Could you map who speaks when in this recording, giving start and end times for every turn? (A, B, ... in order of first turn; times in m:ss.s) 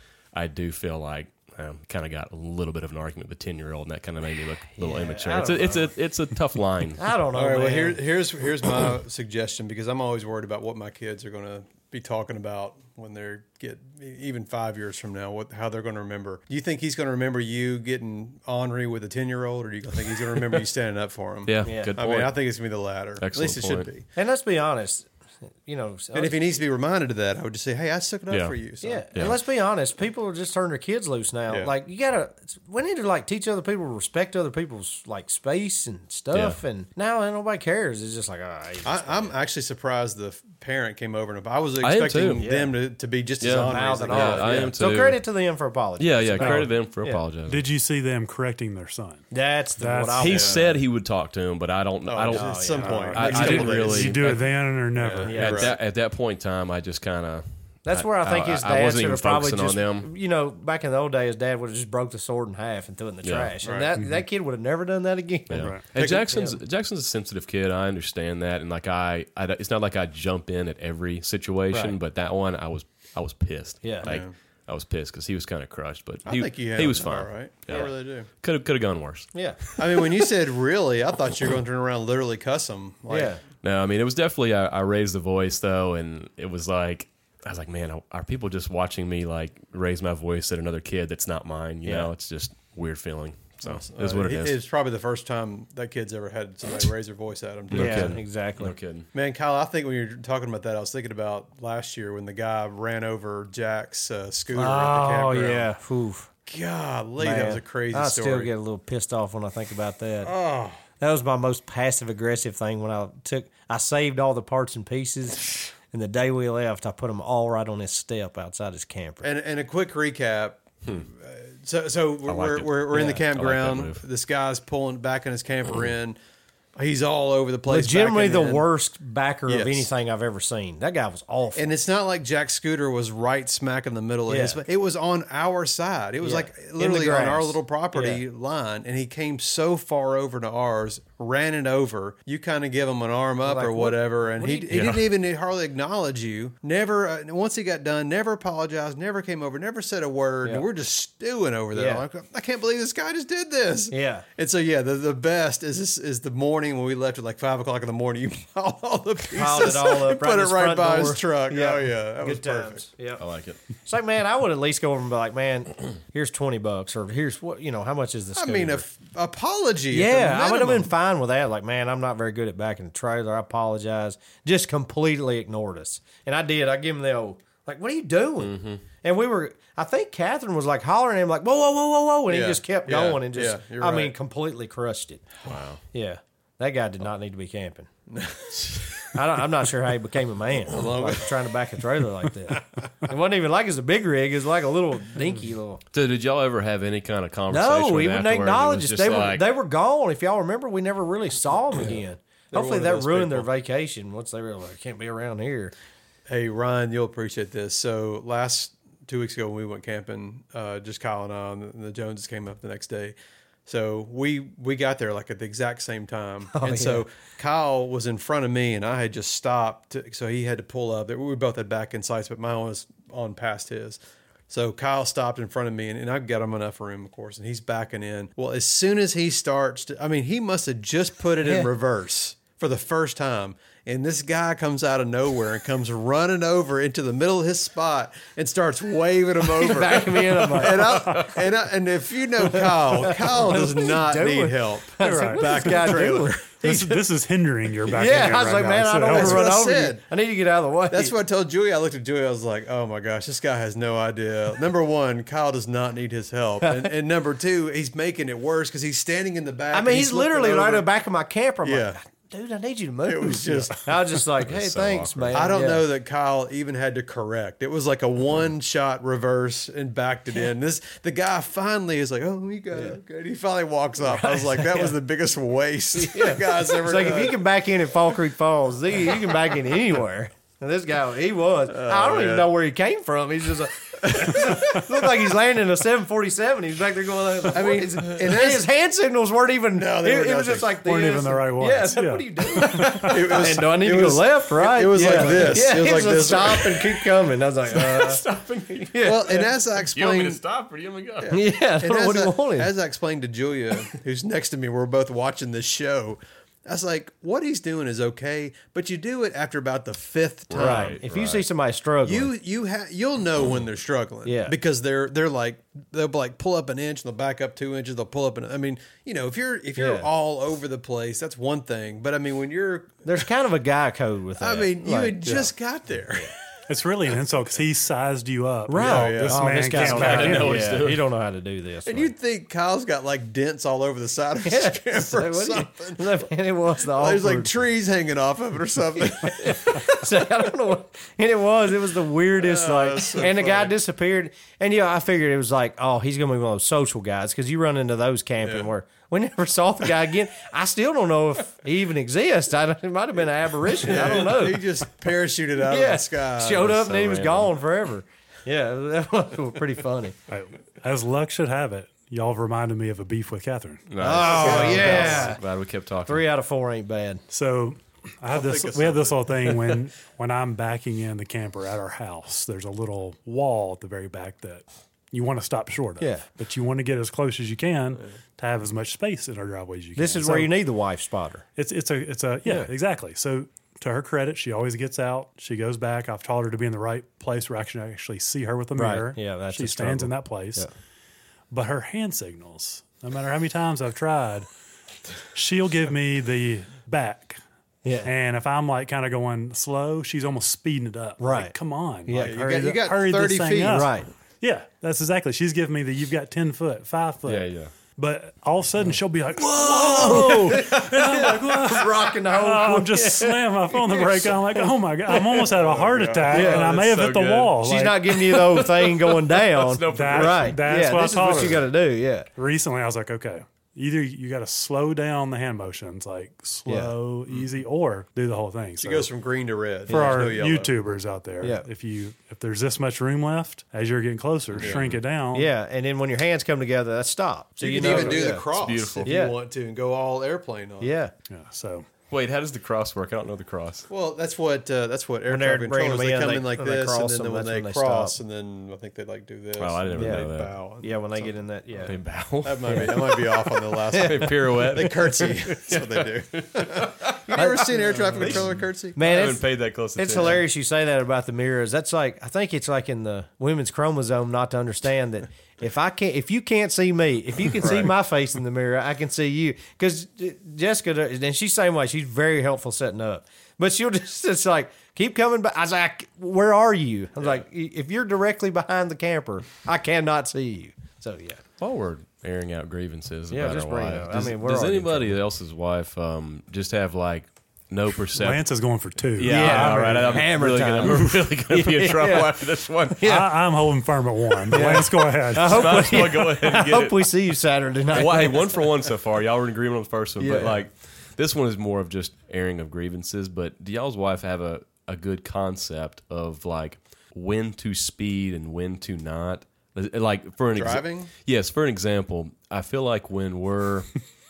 0:00.3-0:07.0 A
0:04.8-0:06.0 B
0:07.0-0:08.0 B
0:07.3-0:24.1 C
0:21.5-0:22.4 A
0:21.6-0:22.0 B
0:23.2-0:23.9 A
0:24.2-0:26.4 B
0:26.1-0:29.1 C
0:28.3-0:28.6 A
0:28.8-0:39.4 B
0:36.3-0:36.6 A
0:38.8-0:44.7 C
0:41.8-0:42.5 A
0:42.4-0:42.8 B
0:43.4-0:45.2 A
0:43.7-0:47.2 B
0:46.0-0:47.6 A
0:46.4-0:46.7 D
0:47.5-0:49.2 D
0:49.3-0:50.8 B
0:49.8-0:50.4 D
0:50.2-0:54.4 A
0:50.3-0:50.6 C
0:52.1-0:54.3 C
0:52.3-0:53.6 B
0:52.8-0:55.4 D
0:55.0-0:55.8 C
0:55.3-0:55.7 B
0:55.3-1:00.1 A
0:57.8-1:05.8 B
1:03.2-1:03.5 A
1:03.6-1:03.9 C
1:05.5-1:20.2 A
1:05.6-1:05.8 D
1:06.0-1:06.4 C
1:06.3-1:06.6 B
1:11.7-1:12.0 B
1:13.8-1:14.2 B
1:14.0-1:14.3 C
1:16.3-1:18.3 C
1:19.8-1:23.4 C
1:23.1-1:23.4 B
1:23.6-1:34.6 A
1:31.8-1:32.1 B
1:33.6-1:38.2 C
1:37.7-1:39.1 A
1:37.7-1:38.8 B
1:39.1-1:45.7 C
1:44.5-1:46.3 B
1:46.5-1:48.5 C
1:47.2-1:50.3 B
1:50.2-1:50.8 C
1:51.0-1:59.3 B
1:59.2-2:06.2 C
2:02.3-2:04.0 A
2:02.9-2:03.2 B
2:06.8-2:08.6 C
2:07.7-2:11.7 B
2:09.5-2:09.9 C
2:11.6-2:42.8 C
2:14.3-2:14.6 B
2:16.2-2:18.2 B
2:23.4-2:24.8 B
2:24.7-2:25.0 A
2:31.7-2:32.0 B
2:33.9-2:34.3 B
2:39.3-2:43.2 B
2:43.2-2:43.6 A
2:43.8-2:48.8 B
2:48.4-2:50.9 C
2:49.9-3:05.4 B
2:58.4-2:58.8 A
3:02.3-3:04.2 C
3:05.4-3:05.8 A
3:05.9-3:07.9 B
3:08.1-3:09.1 C
3:09.1-3:15.8 B
3:10.7-3:11.3 C
3:15.9-3:19.5 A
3:17.5-3:25.7 B
3:22.5-3:23.5 C
3:26.3-3:44.0 C
3:36.5-3:37.0 B
3:44.5-4:06.6 C
3:51.4-3:51.7 B
3:59.4-4:01.4 B
4:02.4-4:07.0 B
4:05.0-4:09.5 D
4:07.9-4:11.2 B
4:09.1-4:10.0 C
4:10.9-4:20.9 C
4:16.6-4:16.9 B
4:19.7-4:25.9 B
4:21.6-4:22.0 C
4:23.1-4:23.9 C
4:24.4-4:25.6 A
4:25.3-4:37.4 C
4:34.0-4:35.0 B
4:36.0-4:59.5 B
4:41.7-4:42.5 C
4:44.2-4:44.6 C
4:47.5-4:48.6 C
4:49.7-4:50.8 C
4:50.8-4:53.1 D
4:52.7-4:56.8 C
4:55.1-4:55.7 A
4:56.4-4:56.8 A
4:57.7-5:01.4 A
4:59.0-5:00.4 C
5:01.2-5:11.0 C
5:01.3-5:02.7 B
5:10.5-5:11.4 A
5:10.6-5:12.3 B
5:12.0-5:23.2 C
5:14.2-5:14.6 B
5:19.8-5:20.1 B
5:23.0-5:25.3 B
5:24.4-5:26.3 C
5:25.2-5:25.5 D
5:26.7-5:30.6 D
5:28.7-5:32.1 B
5:28.8-5:29.5 C
5:29.7-5:31.1 A
5:31.8-5:36.2 C
5:34.4-5:37.6 B
5:36.9-5:39.9 C
5:39.2-5:54.7 B
5:42.4-5:43.7 C
5:53.8-5:56.8 C
5:55.6-6:00.2 B
5:56.6-5:57.5 A
6:00.3-6:03.9 D
6:03.9-6:06.2 A
6:04.0-6:05.4 B
6:04.3-6:05.3 C
6:06.0-6:07.2 B
6:07.3-6:20.5 D
6:08.3-6:09.6 C
6:16.0-6:16.2 B
6:20.0-6:21.4 B
6:21.6-6:30.7 D
6:22.4-6:22.7 B
6:28.8-6:30.7 B
6:31.5-6:34.5 D
6:35.3-6:37.4 D
6:37.8-6:38.1 B
6:38.0-6:58.6 D
6:41.2-6:41.6 B
6:42.1-6:42.4 B
6:42.2-6:43.9 C
6:43.6-6:44.1 B
6:47.3-6:47.7 A
6:49.5-6:55.5 B
6:49.8-6:50.7 A
6:55.5-6:56.6 C
6:56.3-6:56.7 B
6:56.3-6:57.6 A
6:57.6-7:02.3 B
6:58.3-7:00.6 A
6:59.9-7:01.7 D
7:02.4-7:09.1 D
7:06.7-7:06.9 B
7:08.8-7:10.8 C
7:09.9-7:10.4 B
7:09.9-7:15.5 D
7:11.4-7:11.7 B
7:14.6-7:15.0 A
7:15.3-7:18.5 B
7:17.6-7:20.9 C
7:17.8-7:19.2 A
7:19.0-7:19.4 B
7:20.8-7:21.1 B
7:21.3-7:21.9 D
7:22.1-7:23.9 A
7:23.9-7:39.0 C
7:25.3-7:28.2 B
7:29.6-7:30.6 A
7:29.9-7:32.0 B
7:31.8-7:33.3 A
7:32.6-7:34.6 B
7:33.9-7:40.4 A
7:37.3-8:01.4 B
7:47.6-7:47.9 C
8:01.6-8:08.4 A
8:03.3-8:05.2 B
8:08.2-8:10.3 D
8:09.2-8:13.1 A
8:09.2-8:13.4 B
8:13.0-8:16.0 D
8:14.4-8:18.7 B
8:14.5-8:17.1 A
8:17.9-8:34.0 A
8:20.2-8:20.6 B
8:30.6-8:31.1 C